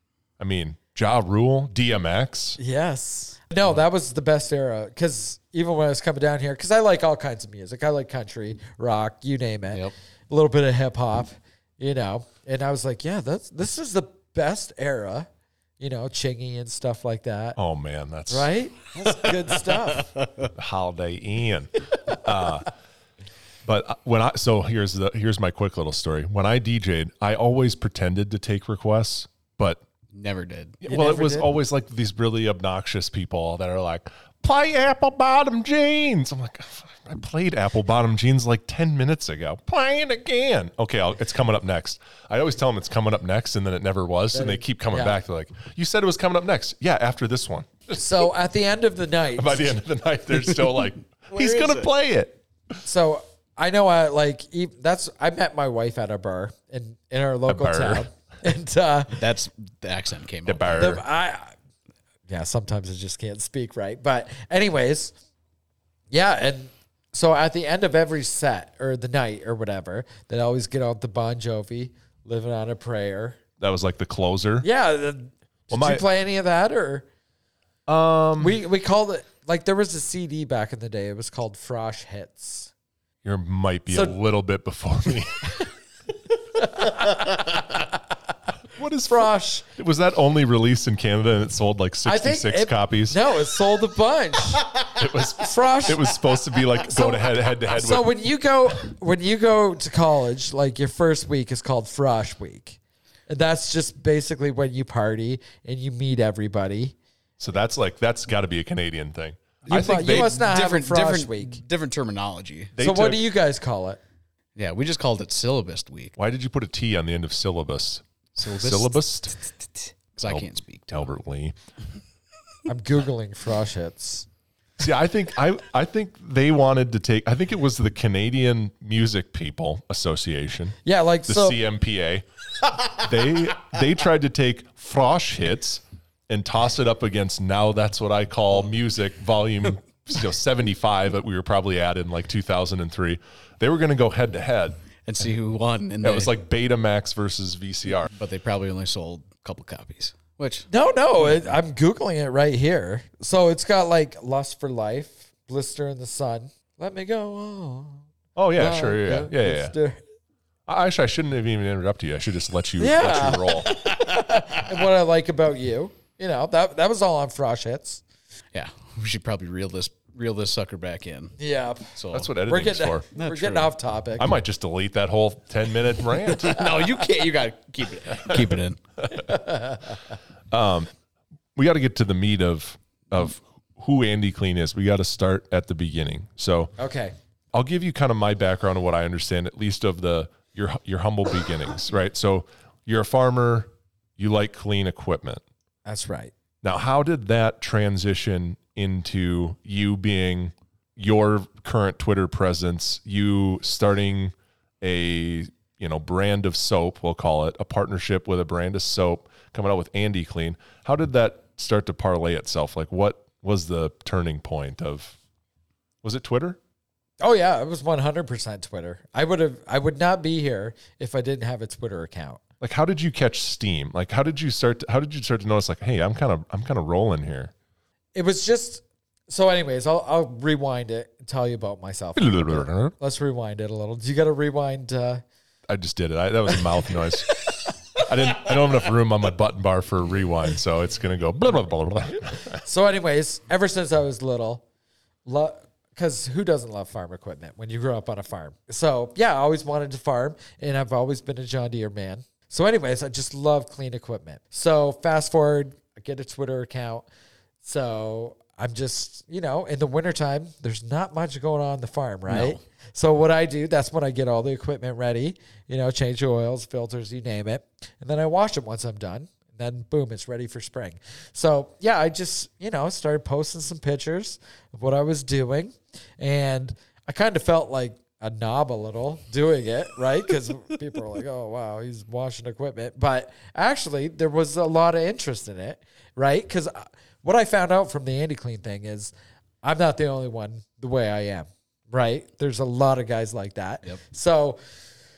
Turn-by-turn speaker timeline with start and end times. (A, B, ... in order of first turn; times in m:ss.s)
0:00.4-0:02.6 A
0:02.6-0:15.3 B
0:15.8-0:17.6 B
0:17.6-0:18.5 A
0:18.3-0:20.1 B
0:19.3-0:20.5 C
0:20.6-0:22.7 A
0:23.6-0:29.8 A
0:30.1-0:30.8 C
0:30.8-0:48.0 A
0:30.9-0:31.5 B
0:44.3-0:45.2 B
0:47.9-0:49.8 B
0:49.4-0:52.4 A
0:51.3-0:51.9 C
0:52.8-0:59.3 B
0:57.5-0:58.1 A
0:59.2-1:01.0 C
1:00.5-1:01.0 A
1:00.7-1:01.5 B
1:02.3-1:05.2 B
1:06.1-1:13.4 B
1:13.6-1:14.7 A
1:14.6-1:17.1 B
1:15.7-1:16.0 A
1:17.9-1:18.6 A
1:18.4-1:22.7 B
1:23.2-1:25.6 A
1:23.9-1:24.2 B
1:26.5-1:28.0 B
1:28.7-1:33.2 A
1:29.1-1:29.6 B
1:32.0-1:34.7 B
1:34.9-1:38.1 A
1:35.4-1:36.2 B
1:36.8-1:47.0 B
1:47.4-1:50.3 A
1:49.7-1:51.6 B
1:49.7-1:52.8 C
1:52.8-1:53.2 A
1:52.8-1:54.0 B
1:54.6-1:56.2 C
1:56.2-1:59.4 A
1:58.4-1:59.1 C
2:00.2-2:01.1 C
2:00.2-2:01.6 A
2:02.7-2:04.3 B
2:04.8-2:12.2 A
2:10.8-2:11.6 B
2:12.8-2:24.8 A
2:25.1-2:26.3 C
2:26.0-2:28.1 A
2:28.1-2:30.7 C
2:30.7-2:38.0 B
2:38.4-2:39.8 A
2:38.6-2:40.0 B
2:40.7-2:43.7 A
2:42.8-2:48.0 B
2:48.5-2:51.4 C
2:51.4-2:54.3 B
2:52.0-2:52.3 C
2:52.1-2:53.1 A
2:53.2-2:53.7 C
2:54.2-2:56.8 A
2:56.2-2:58.8 C
2:58.2-2:59.3 A
2:59.1-3:00.0 B
3:00.5-3:00.9 A
3:01.6-3:06.8 A
3:06.8-3:07.1 B
3:07.5-3:15.4 A
3:15.9-3:16.3 B
3:16.6-3:35.2 A
3:36.0-3:36.6 A
3:37.2-3:42.4 B
3:42.6-3:47.5 A
3:48.2-3:55.2 B
3:52.2-3:52.9 A
3:55.7-4:02.6 A
4:02.5-4:04.6 B
4:05.3-4:17.1 B
4:17.6-4:54.6 B
4:22.3-4:22.6 C